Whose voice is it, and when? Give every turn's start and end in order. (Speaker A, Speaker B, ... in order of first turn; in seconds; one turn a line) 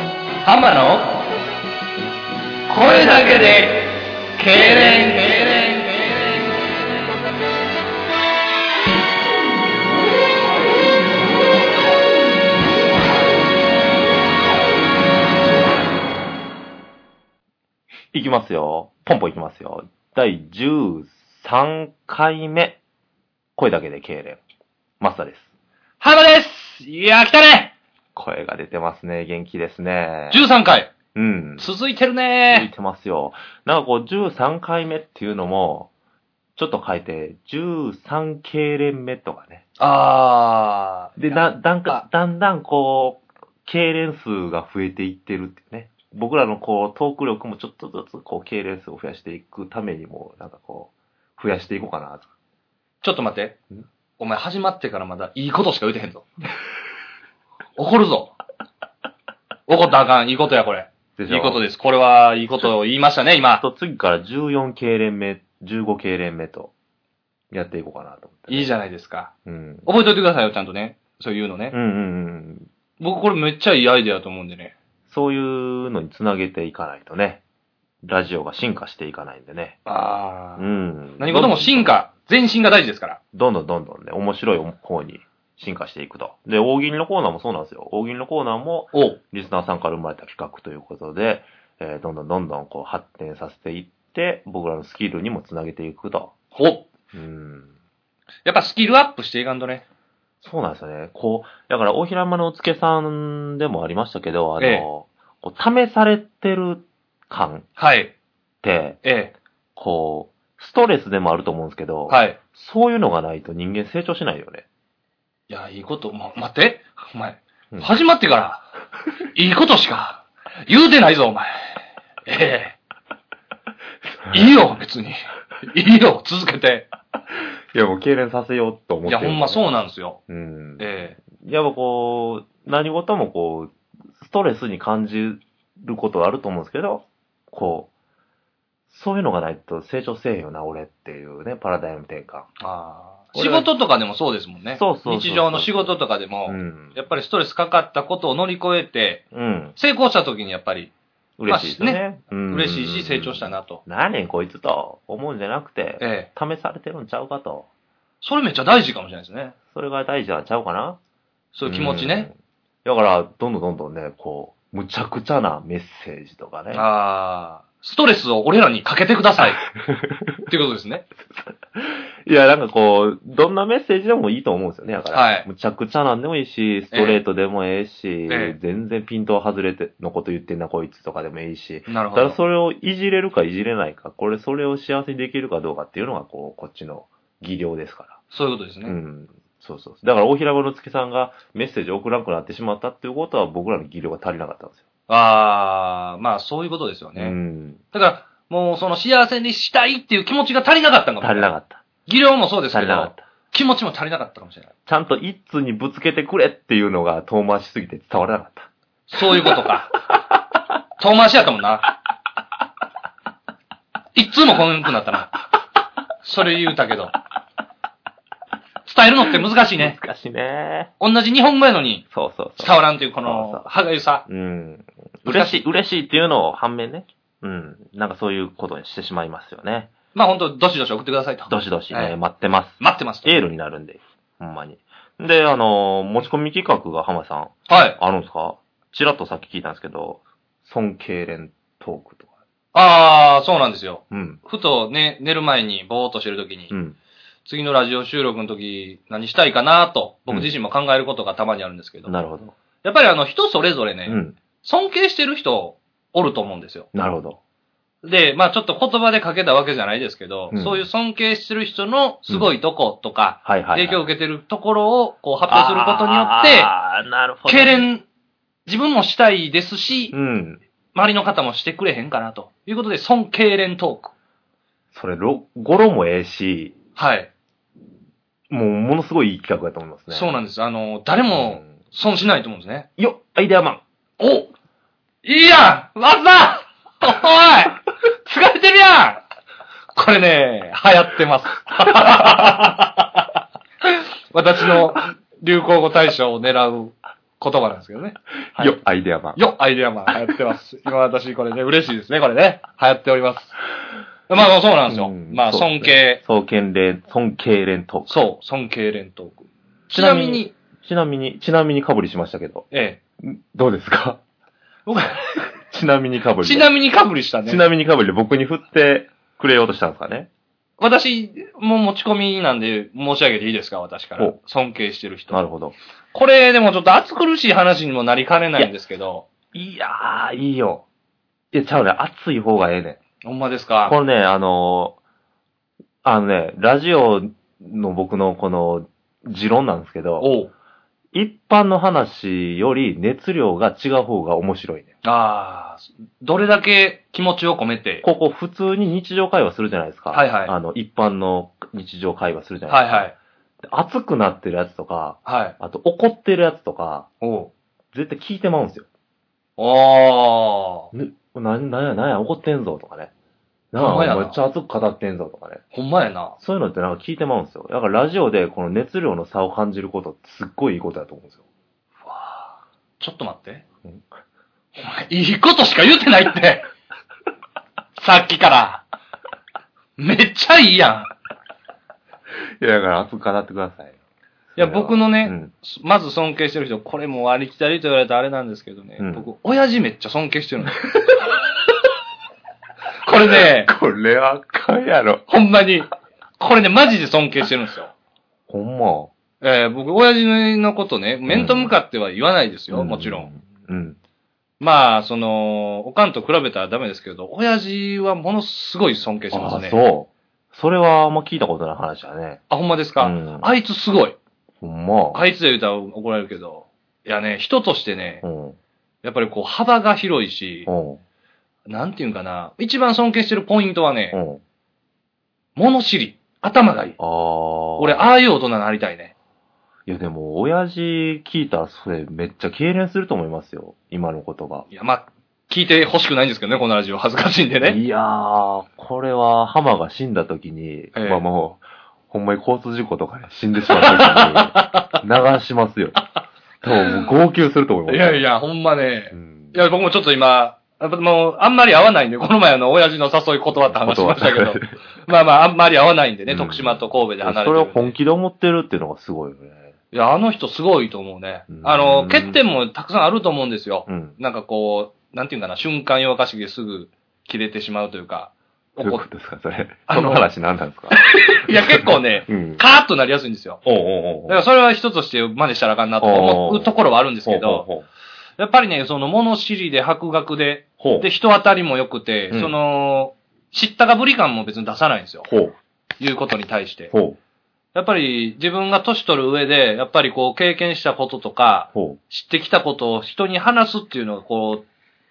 Speaker A: 0.4-1.1
Speaker A: 2.7-6.0
Speaker B: 18.1-22.8
Speaker B: 23.6-24.4
Speaker B: 25.0-25.5
Speaker A: 26.0-27.7
Speaker B: 28.1-30.4
Speaker A: 30.3-30.9
Speaker B: 31.1-31.7
Speaker A: 31.6-32.7
Speaker B: 32.5-35.9
Speaker B: 36.5-39.6
Speaker A: 39.8-42.0
Speaker B: 41.2-52.3
Speaker A: 53.0-53.6
Speaker A: 54.2-56.3
Speaker A: 57.8-58.3
Speaker A: 59.7-63.6
Speaker B: 61.2-61.6
Speaker B: 63.6-66.7
Speaker B: 67.5-68.7
Speaker A: 68.5-69.3
Speaker B: 69.5-69.9
Speaker A: 69.8-71.8
Speaker B: 71.7-72.7
Speaker A: 73.0-74.7
Speaker B: 75.1-77.4
Speaker B: 78.0-79.8
Speaker A: 79.8-83.2
Speaker B: 80.6-82.0
Speaker B: 83.3-96.3
Speaker A: 88.9-89.2
Speaker A: 96.5-96.8
Speaker B: 97.1-97.7
Speaker A: 98.4-99.8
Speaker B: 100.4-107.7
Speaker A: 104.6-104.9
Speaker A: 107.8-108.1
Speaker B: 108.6-109.0
Speaker A: 109.0-109.3
Speaker B: 109.8-114.6
Speaker A: 112.1-112.4
Speaker A: 115.5-118.7
Speaker A: 119.3-122.8
Speaker A: 124.3-126.9
Speaker B: 127.7-129.7
Speaker A: 129.0-130.2
Speaker B: 130.3-137.9
Speaker A: 130.8-131.2
Speaker B: 138.9-142.5
Speaker A: 142.6-149.2
Speaker B: 143.3-143.7
Speaker B: 144.7-147.1
Speaker B: 149.3-149.8
Speaker A: 149.8-150.9
Speaker B: 151.4-157.7
Speaker A: 151.5-153.8
Speaker A: 156.0-156.3
Speaker A: 158.2-159.6
Speaker B: 159.7-161.0
Speaker A: 161.5-162.3
Speaker B: 161.6-162.3
Speaker B: 162.8-166.9
Speaker A: 166.7-169.6
Speaker B: 169.8-170.4
Speaker A: 170.5-171.1
Speaker B: 171.8-188.2
Speaker A: 175.1-175.5
Speaker A: 176.9-177.2
Speaker A: 178.3-178.6
Speaker A: 181.9-182.4
Speaker A: 188.3-188.9
Speaker B: 188.8-194.8
Speaker A: 195.1-197.3
Speaker B: 197.2-197.8
Speaker A: 197.9-201.5
Speaker B: 201.2-201.8
Speaker A: 202.1-204.7
Speaker B: 202.7-203.2
Speaker B: 204.9-208.7
Speaker A: 209.1-210.0
Speaker B: 209.3-209.6
Speaker A: 211.0-211.9
Speaker A: 214.1-215.3
Speaker A: 216.2-217.1
Speaker A: 218.8-220.0
Speaker B: 219.7-220.9
Speaker A: 221.0-222.0
Speaker B: 222.1-223.7
Speaker A: 222.6-224.2
Speaker B: 224.2-229.9
Speaker A: 225.2-225.6
Speaker A: 230.1-232.2
Speaker B: 231.5-242.3
Speaker A: 232.8-233.4
Speaker A: 237.7-238.0
Speaker A: 242.7-246.7
Speaker B: 244.1-244.4
Speaker B: 246.7-247.0
Speaker A: 247.4-252.1
Speaker B: 252.1-252.5
Speaker A: 252.8-256.9
Speaker B: 254.1-254.4
Speaker B: 256.9-257.4
Speaker A: 258.0-266.7
Speaker B: 260.5-260.8
Speaker B: 263.4-264.0
Speaker B: 265.5-267.9
Speaker A: 267.5-268.1
Speaker A: 268.6-270.1
Speaker B: 270.1-270.6
Speaker A: 270.9-274.1
Speaker B: 274.9-276.8
Speaker A: 276.9-277.3
Speaker B: 278.5-280.3
Speaker A: 280.1-282.9
Speaker B: 281.3-281.7
Speaker B: 283.0-283.8
Speaker A: 284.2-284.5
Speaker A: 285.2-289.2
Speaker A: 289.9-293.2
Speaker A: 293.9-298.8
Speaker B: 298.6-299.4
Speaker A: 299.4-303.6
Speaker A: 304.3-306.2
Speaker B: 304.9-308.2
Speaker A: 308.1-310.5
Speaker B: 309.9-312.7
Speaker A: 312.7-313.0
Speaker B: 313.2-314.2
Speaker A: 314.9-315.3
Speaker B: 315.6-316.7
Speaker A: 316.4-317.6
Speaker B: 317.4-320.3
Speaker A: 320.8-325.4
Speaker B: 325.3-325.7
Speaker A: 326.1-329.2
Speaker B: 329.5-330.9
Speaker B: 331.5-333.0
Speaker A: 333.2-334.0
Speaker B: 333.9-335.0
Speaker B: 336.0-340.3
Speaker A: 340.2-340.5
Speaker B: 341.1-344.9
Speaker A: 345.0-348.0
Speaker B: 348.0-353.1
Speaker A: 350.1-350.5
Speaker A: 352.7-353.1
Speaker B: 353.6-357.1
Speaker A: 355.2-355.6
Speaker A: 357.2-357.5
Speaker B: 357.9-358.9
Speaker A: 359.6-360.9
Speaker B: 360.9-363.1
Speaker B: 363.7-365.6
Speaker A: 363.8-364.4
Speaker A: 365.7-366.4
Speaker B: 366.4-371.4
Speaker A: 372.1-373.6
Speaker A: 374.8-376.7
Speaker A: 378.0-378.8
Speaker A: 380.0-381.1
Speaker B: 382.6-383.9
Speaker B: 384.6-385.5
Speaker A: 384.6-390.8
Speaker B: 389.0-389.3
Speaker A: 393.0-393.7
Speaker B: 393.2-395.2
Speaker A: 395.3-397.9
Speaker B: 398.5-399.1
Speaker A: 399.4-403.3
Speaker B: 401.3-401.7
Speaker B: 402.7-404.0
Speaker A: 404.6-409.8
Speaker B: 409.3-412.4
Speaker A: 412.5-414.2
Speaker B: 413.0-413.5
Speaker B: 414.6-415.2
Speaker A: 415.1-418.2
Speaker B: 418.2-418.6
Speaker A: 419.0-420.7
Speaker B: 420.7-421.0
Speaker A: 421.7-424.2
Speaker B: 424.1-424.4
Speaker A: 425.6-427.0
Speaker B: 427.0-428.1
Speaker A: 427.8-429.1
Speaker B: 429.9-434.7
Speaker A: 434.7-437.8
Speaker B: 437.6-446.0
Speaker A: 440.9-441.2
Speaker A: 443.7-445.0
Speaker B: 446.6-448.2
Speaker A: 447.9-458.0
Speaker B: 449.1-449.6
Speaker B: 453.7-454.8
Speaker B: 456.3-459.7
Speaker A: 459.9-469.1
Speaker B: 461.5-462.4
Speaker B: 463.9-464.2
Speaker B: 468.8-472.6
Speaker A: 469.9-470.3
Speaker A: 470.9-473.6
Speaker B: 473.6-474.4
Speaker A: 474.3-477.7
Speaker B: 476.0-476.7
Speaker B: 477.2-477.9
Speaker A: 478.4-485.3
Speaker B: 480.8-481.1
Speaker B: 482.3-482.6
Speaker B: 485.2-485.6
Speaker A: 486.0-486.9
Speaker B: 486.9-487.2
Speaker A: 487.7-494.7
Speaker B: 491.7-492.0